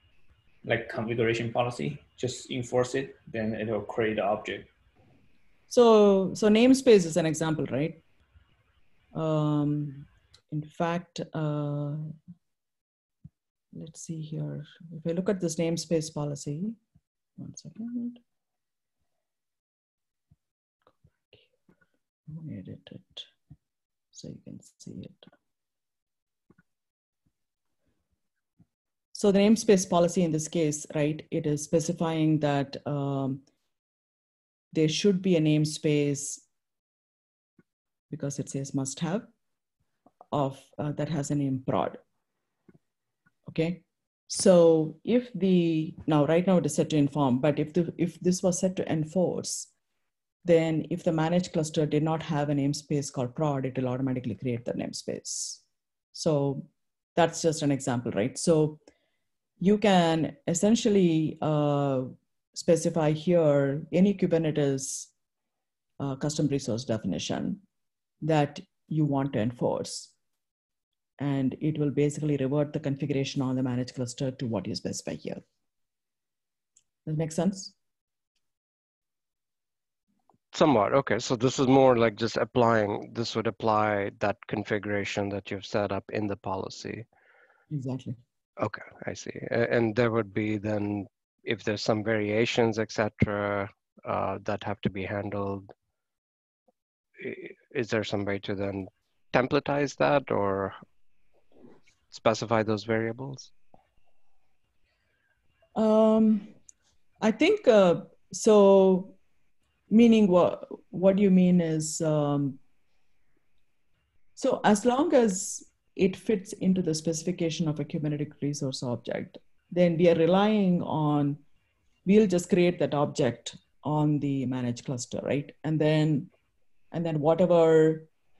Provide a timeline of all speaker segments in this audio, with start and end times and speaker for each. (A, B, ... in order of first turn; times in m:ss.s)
0:00.6-0:04.7 A
0:05.7-0:08.0 B
0:09.1-0:12.1 B
0:13.7-0:16.8 B
0:17.4-0:18.2 B
0:22.3-0:23.3 B
0:24.1-0:25.3 B
0:29.1-0:33.4 B
0:34.7-0:36.4 B
0:38.1-0:39.3 B
0:40.3-0:42.0 B
0:43.5-0:49.7 B
0:50.4-0:55.6 B
0:56.1-0:58.8 B
0:59.6-1:05.1 B
1:06.0-1:07.6 B
1:08.2-1:10.1 B
1:11.2-1:15.4 B
1:17.0-1:17.7 B
1:20.5-1:27.0 C
1:27.7-1:28.2 B
1:28.6-1:35.7 C
1:37.2-1:40.7 C
1:42.1-1:43.5 C
1:45.7-1:46.5 B
1:47.2-1:49.2 B
1:49.9-1:52.6 B
1:54.4-2:01.4 B
2:02.0-2:06.3 B
2:06.9-2:08.1 B